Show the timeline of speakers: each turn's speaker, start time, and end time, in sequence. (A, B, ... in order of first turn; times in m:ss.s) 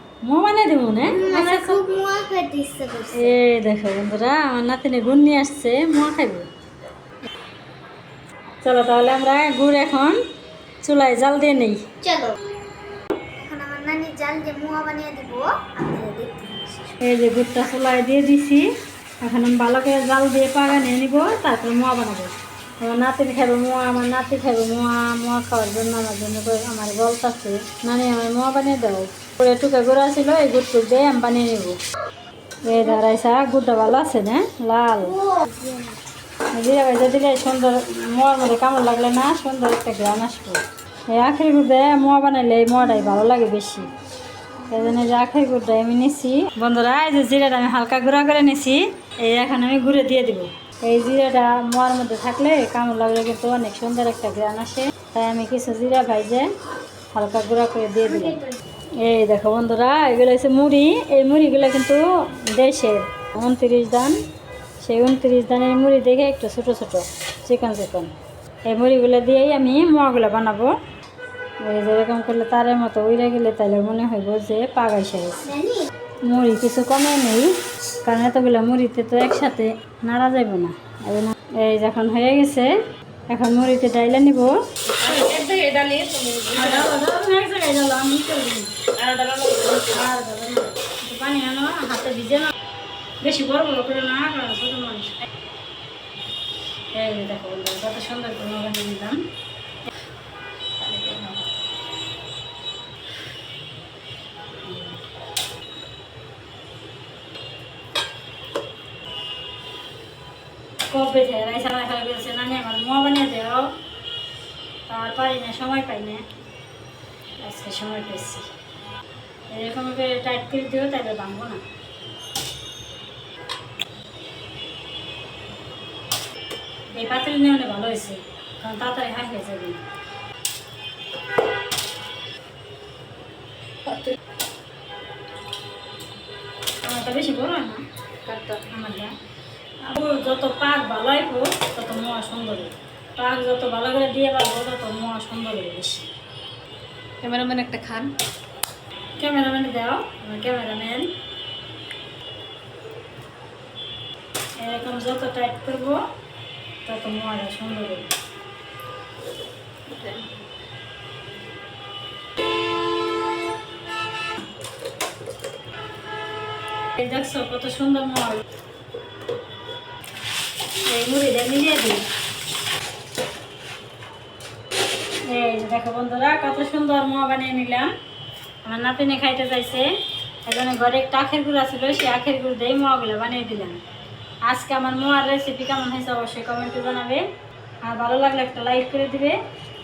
0:00.3-0:01.8 A
0:01.1-0:03.4 B
0:03.1-0:06.5 A
0:08.6-0:10.2 A
0:10.8-0:11.8 A
0:12.0-0:12.4 B
0:13.4-0:17.0 B
0:17.0-0:18.7 A
0:19.2-0:31.8 A
0:32.6-0:35.2 A
0:35.0-0:36.0 B
0:36.5-0:43.9 A
0:44.7-0:56.5 A
0:57.1-0:58.4 A
0:59.0-1:04.2 A
1:04.8-1:08.2 A
1:08.7-1:10.8 A
1:11.6-1:15.5 A
1:15.4-1:15.9 B
1:16.3-1:22.8 A
1:23.3-1:25.1 A
1:24.9-1:27.0 C
1:26.5-1:28.7 A
1:29.0-1:30.0 C
1:29.8-1:32.5 A
1:33.2-1:35.3 A
1:36.9-1:39.2 A
1:40.8-1:41.4 C
1:44.7-1:45.0 A
1:50.9-1:53.7 A
1:54.9-1:56.3 A
1:57.4-1:58.5 A
1:59.5-2:01.6 A
2:06.9-2:09.8 A
2:13.9-2:14.2 C
2:16.8-2:17.8 A
2:18.2-2:18.6 C
2:18.7-2:19.1 A
2:19.8-2:26.1 A
2:27.2-2:28.2 C
2:29.2-2:31.1 A
2:34.6-2:36.0 A
2:36.8-2:38.1 A
2:39.9-2:40.3 C
2:47.0-2:48.4 A
2:50.9-2:52.1 A
2:55.3-2:57.9 A
2:58.6-2:59.9 A
3:00.5-3:03.8 A
3:04.4-3:07.2 A
3:07.8-3:09.4 A